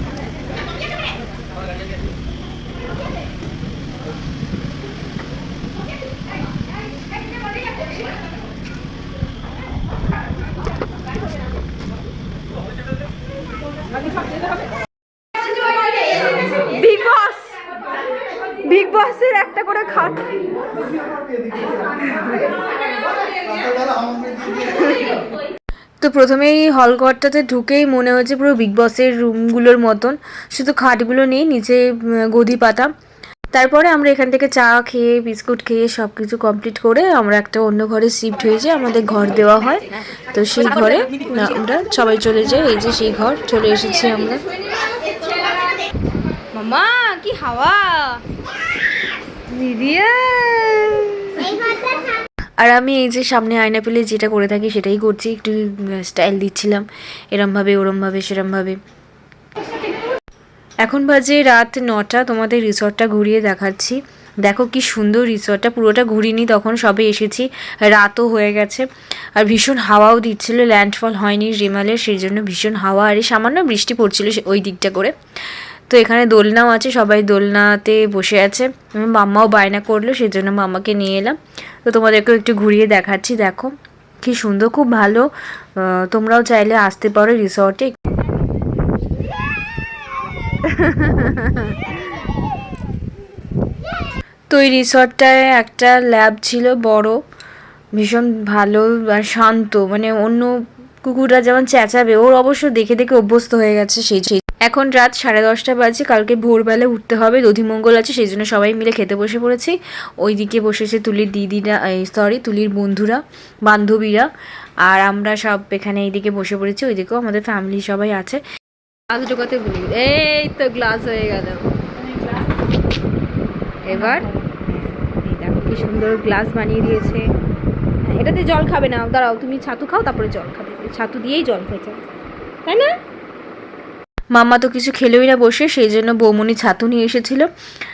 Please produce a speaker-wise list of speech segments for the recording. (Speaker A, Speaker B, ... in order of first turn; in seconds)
Speaker A: 16.6-17.6, 18.6-20.5, 22.1-22.5, 24.6-25.1, 46.5-48.2, 49.5-51.6, 119.1-121.6, 123.9-127.2, 128.1-132.0, 132.7-132.9
Speaker B: 26.0-32.9, 33.5-44.4, 52.6-58.8, 60.9-75.2, 75.9-88.0, 90.9-91.4, 94.5-97.2, 98.0-100.5, 101.0-114.3, 114.9-118.4, 123.9-124.3, 134.3-137.5